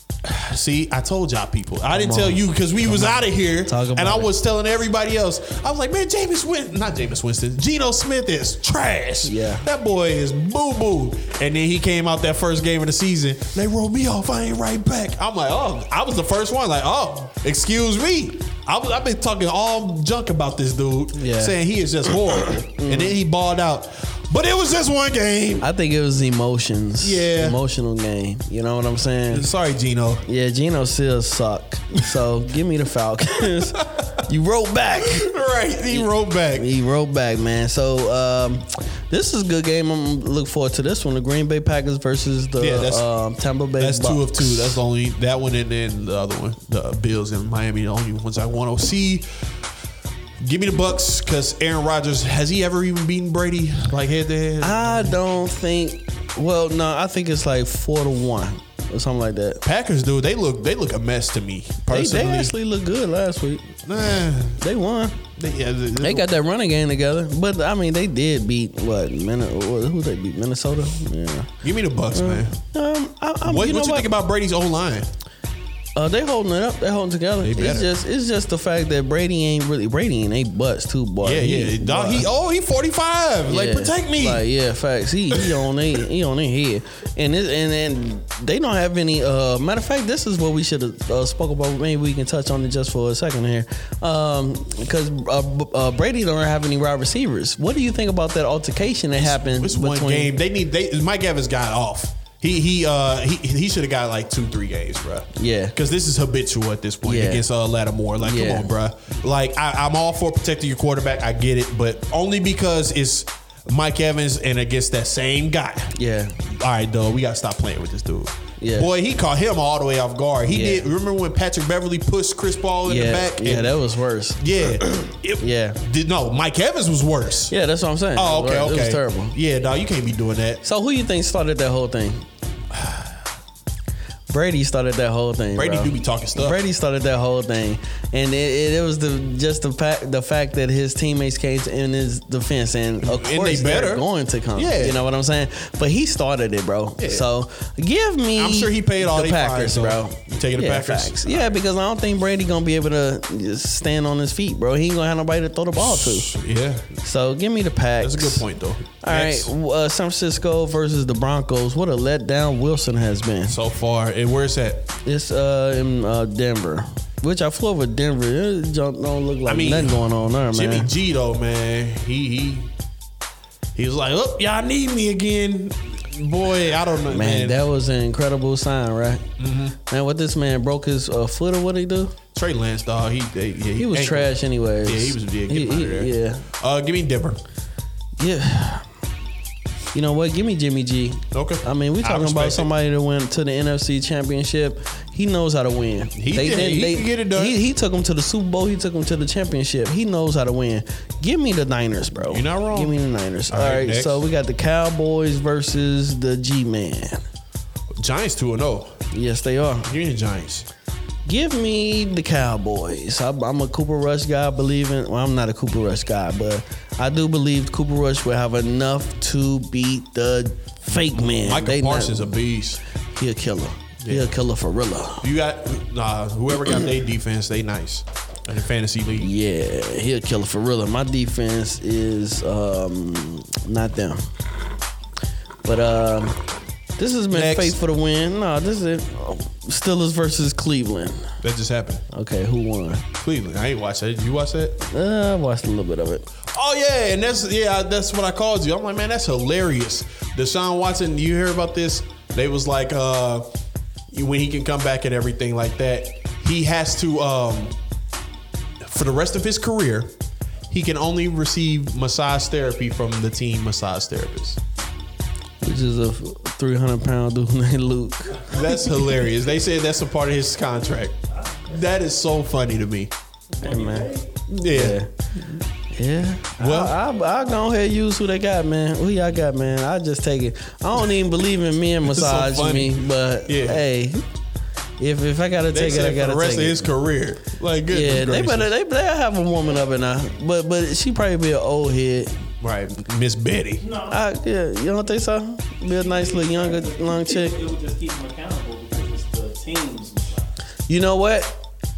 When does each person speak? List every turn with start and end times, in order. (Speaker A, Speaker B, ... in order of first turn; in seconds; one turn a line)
Speaker A: 0.2-25.7
Speaker B: 1.9-4.3
Speaker B: 9.2-9.6
Speaker B: 21.1-21.6
Speaker B: 22.6-23.2
Speaker B: 25.6-29.4
Speaker A: 27.0-27.6
Speaker A: 29.3-30.2
Speaker B: 30.2-35.3
Speaker A: 35.0-36.7
Speaker B: 35.9-44.8
Speaker A: 42.6-43.0
Speaker A: 43.8-49.2
Speaker A: 50.4-55.2
Speaker B: 54.6-59.6
Speaker A: 59.6-62.5
Speaker B: 61.9-63.8
Speaker A: 63.9-64.6
Speaker B: 64.6-65.2
Speaker A: 65.3-66.3
Speaker B: 66.0-71.5
Speaker A: 71.6-72.5
Speaker B: 72.1-74.1
Speaker A: 73.4-75.1
Speaker B: 76.0-82.3
Speaker A: 77.4-77.9
Speaker A: 81.2-84.4
Speaker B: 83.5-100.3
Speaker A: 99.2-115.9
Speaker B: 105.3-105.7
Speaker B: 107.0-107.4
Speaker B: 108.2-108.7
Speaker B: 115.9-116.4
Speaker A: 116.5-123.8
Speaker B: 118.6-118.9
Speaker B: 120.5-120.9
Speaker B: 122.8-125.8
Speaker A: 124.4-127.5
Speaker B: 127.5-129.3
Speaker A: 128.1-130.6
Speaker B: 130.6-132.3
Speaker A: 132.7-133.1
Speaker B: 134.3-156.3
Speaker A: 135.5-136.6
Speaker A: 143.0-145.0
Speaker A: 147.0-147.3
Speaker A: 148.3-151.6
Speaker A: 155.8-156.9
Speaker B: 157.0-158.4
Speaker A: 158.0-159.5
Speaker B: 159.0-163.6
Speaker A: 163.5-164.8
Speaker B: 165.0-170.9
Speaker A: 169.4-172.7
Speaker A: 173.7-177.7
Speaker B: 177.1-179.2
Speaker A: 179.4-179.7
Speaker B: 179.8-182.1
Speaker A: 182.3-187.4
Speaker B: 183.8-186.4
Speaker B: 188.2-188.8
Speaker B: 189.9-207.2
Speaker A: 191.3-192.7
Speaker A: 196.2-197.6
Speaker A: 202.2-204.2
Speaker A: 208.0-208.9
Speaker B: 209.1-209.9
Speaker A: 209.9-210.7
Speaker B: 211.2-222.4
Speaker A: 221.0-222.8
Speaker B: 223.1-225.3
Speaker A: 224.0-224.3
Speaker A: 225.2-229.3
Speaker B: 229.2-234.2
Speaker B: 235.7-236.4
Speaker B: 237.0-241.3
Speaker A: 237.3-237.8
Speaker A: 241.4-242.0
Speaker B: 242.1-243.1
Speaker A: 243.2-244.8
Speaker B: 244.8-246.3
Speaker A: 246.5-253.4
Speaker A: 254.1-257.8
Speaker A: 258.8-260.1
Speaker A: 260.7-264.6
Speaker B: 265.6-268.7
Speaker A: 268.5-273.1
Speaker C: 273.6-274.3
Speaker B: 273.6-274.2
Speaker A: 274.5-275.0
Speaker B: 274.7-284.2
Speaker A: 276.6-277.0
Speaker A: 282.0-283.8
Speaker B: 285.0-286.9
Speaker A: 285.7-288.7
Speaker B: 287.9-292.4
Speaker A: 292.6-293.8
Speaker C: 293.8-294.2
Speaker B: 294.1-297.7
Speaker C: 295.9-300.5
Speaker B: 300.9-301.6